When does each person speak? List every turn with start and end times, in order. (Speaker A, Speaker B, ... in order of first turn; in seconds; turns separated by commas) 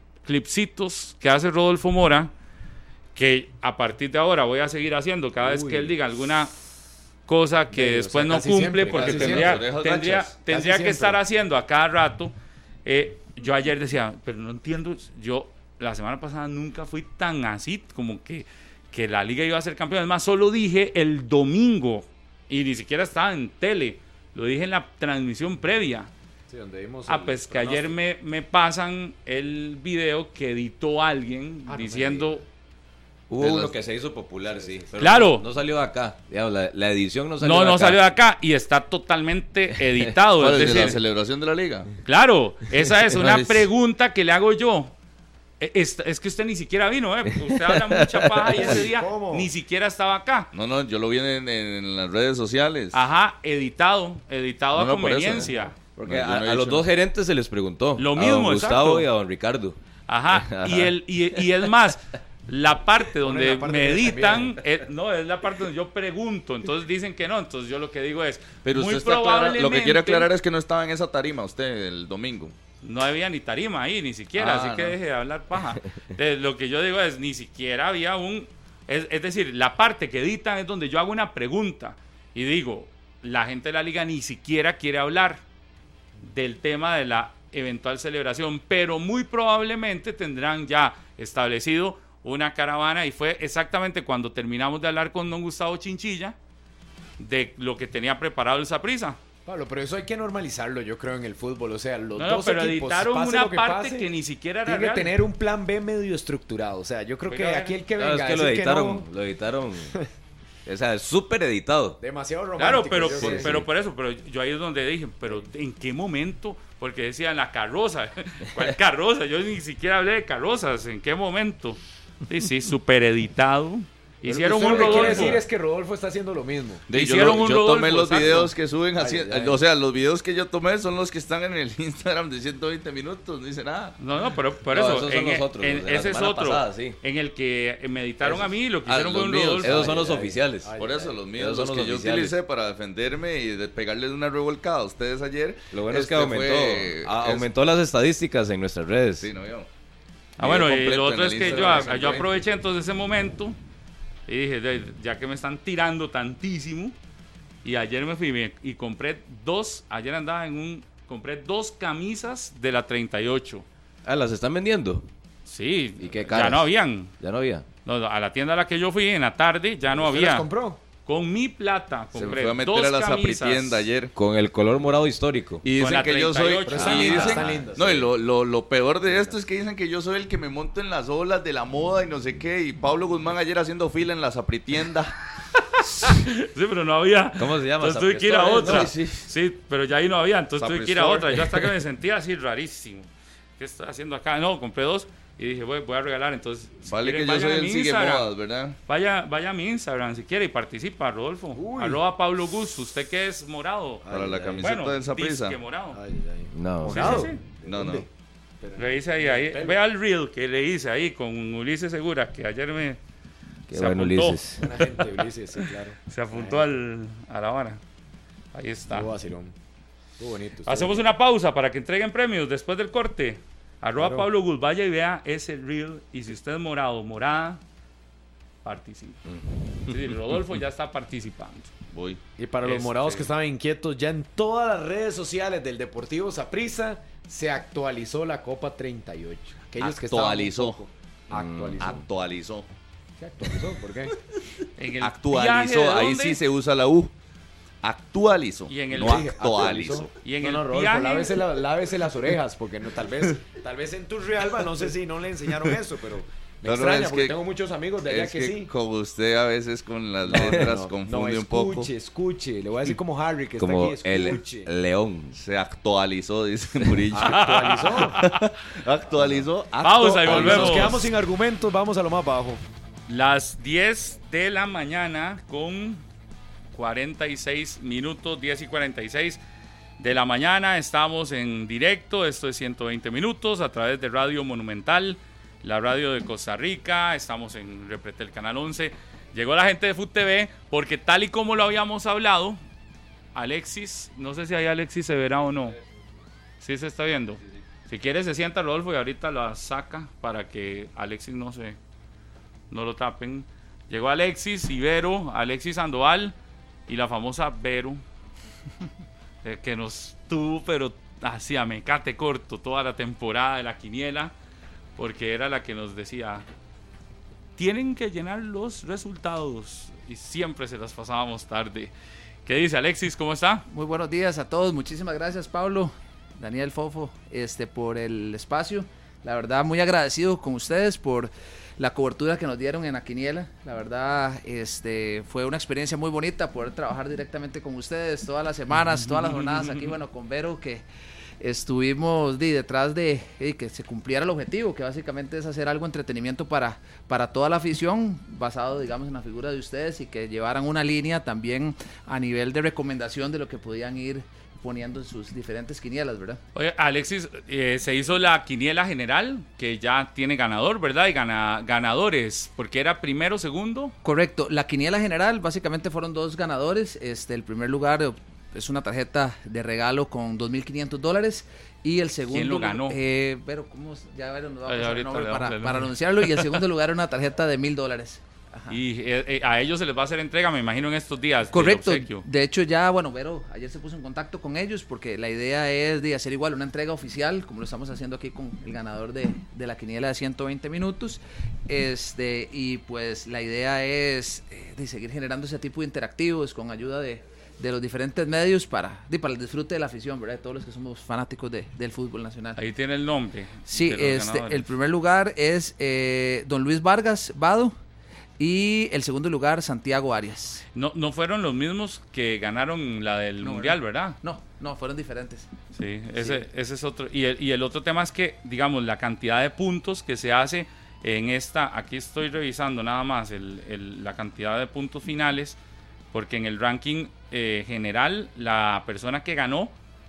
Speaker A: 0.2-2.3, Speaker A: 3.1-6.5, Speaker B: 5.4-5.9, Speaker A: 7.3-12.3, Speaker B: 7.7-9.7, Speaker C: 8.9-10.3, Speaker B: 10.4-11.2, Speaker A: 12.8-26.1, Speaker B: 26.5-27.9, Speaker A: 27.1-32.4, Speaker B: 31.7-32.3, Speaker B: 33.3-33.8, Speaker D: 33.4-38.0, Speaker B: 34.5-34.8, Speaker A: 35.0-35.4, Speaker A: 37.4-41.0, Speaker C: 40.4-41.9, Speaker D: 40.4-41.0, Speaker A: 42.0-44.9, Speaker D: 43.0-43.7, Speaker A: 45.6-50.5, Speaker D: 47.4-48.7, Speaker B: 48.4-49.5, Speaker C: 50.5-53.0, Speaker A: 52.9-55.7, Speaker C: 54.7-56.9, Speaker D: 56.0-59.8, Speaker A: 58.0-59.1, Speaker A: 60.1-70.3, Speaker D: 60.3-61.4, Speaker B: 63.2-64.6, Speaker C: 68.6-72.5, Speaker A: 72.8-85.4, Speaker C: 74.3-75.0, Speaker A: 86.2-96.3, Speaker A: 97.2-99.2, Speaker B: 99.5-104.1, Speaker A: 102.2-105.2, Speaker B: 104.7-109.1, Speaker A: 107.2-107.8, Speaker D: 108.0-109.9, Speaker D: 110.7-112.0, Speaker B: 112.0-113.7, Speaker A: 112.6-125.4, Speaker D: 113.2-113.6, Speaker B: 124.2-126.9, Speaker C: 126.9-134.0, Speaker A: 126.9-128.5, Speaker D: 127.0-127.4, Speaker B: 129.0-129.6, Speaker A: 134.0-139.9, Speaker D: 134.7-137.0, Speaker D: 138.2-138.5, Speaker C: 138.9-147.5, Speaker D: 139.6-140.8, Speaker B: 139.9-141.2, Speaker D: 141.3-142.3, Speaker D: 145.7-149.3, Speaker C: 149.2-149.7, Speaker A: 150.4-153.6, Speaker C: 150.4-152.2, Speaker A: 154.3-156.9, Speaker A: 157.6-163.6, Speaker D: 164.0-165.1, Speaker A: 165.4-167.1, Speaker D: 166.0-167.7, Speaker A: 167.8-170.5, Speaker B: 169.9-170.8, Speaker A: 171.1-173.9, Speaker C: 172.1-174.1, Speaker D: 174.1-175.6, Speaker C: 175.6-185.2, Speaker A: 175.8-177.5, Speaker B: 176.7-178.1, Speaker A: 185.5-198.3, Speaker D: 187.4-189.2, Speaker C: 188.6-189.2, Speaker C: 190.6-191.7, Speaker C: 196.9-198.8, Speaker A: 198.8-204.0, Speaker B: 201.5-202.0, Speaker C: 204.1-205.6, Speaker B: 204.1-204.4, Speaker D: 204.1-204.6, Speaker A: 204.6-206.0, Speaker B: 205.9-208.1, Speaker D: 206.5-207.3, Speaker A: 206.8-207.4, Speaker C: 207.6-208.1, Speaker B: 208.6-209.8, Speaker A: 208.8-213.0, Speaker D: 213.7-214.6, Speaker A: 213.7-217.8, Speaker B: 214.6-216.7, Speaker A: 218.5-219.1, Speaker B: 218.9-219.5, Speaker B: 220.2-221.0, Speaker A: 220.7-227.6, Speaker B: 224.0-224.3, Speaker A: 228.6-229.2, Speaker C: 229.3-230.3, Speaker A: 229.9-231.7, Speaker C: 231.9-232.2, Speaker B: 232.4-242.0, Speaker A: 232.6-233.3, Speaker C: 239.8-240.8, Speaker C: 241.3-242.7, Speaker B: 243.2-244.1, Speaker A: 244.8-246.4, Speaker C: 245.0-247.1, Speaker C: 247.8-250.1, Speaker A: 248.7-249.3, Speaker B: 248.9-258.7, Speaker A: 250.2-251.3, Speaker C: 256.6-257.4, Speaker C: 258.0-261.9, Speaker B: 260.2-264.7, Speaker D: 260.4-260.7, Speaker D: 263.6-265.3, Speaker C: 265.3-267.6, Speaker B: 267.1-268.3, Speaker A: 267.2-268.4, Speaker C: 268.2-271.0, Speaker D: 269.2-269.4, Speaker A: 269.8-271.1, Speaker B: 270.1-272.6, Speaker A: 273.1-276.0, Speaker A: 276.7-279.4, Speaker A: 280.0-292.6, Speaker A: 293.3-295.8, Speaker A: 296.6-301.8, Speaker A: 302.7-306.3, Speaker A: 306.9-308.0, Speaker A: 309.4-314.3, Speaker A: 315.0-316.4, Speaker A: 317.6-321.9, Speaker A: 322.4-323.6, Speaker E: 323.7-340.9, Speaker A: 338.9-339.9, Speaker E: 341.4-356.4, Speaker A: 356.5-363.9, Speaker E: 364.0-378.8, Speaker A: 372.3-373.0, Speaker A: 374.6-376.6, Speaker A: 378.7-382.2, Speaker E: 381.5-402.6, Speaker A: 402.6-404.7, Speaker E: 403.7-407.7, Speaker E: 408.4-410.6, Speaker A: 410.7-414.2, Speaker E: 413.4-415.5, Speaker A: 415.7-425.6, Speaker A: 426.1-429.7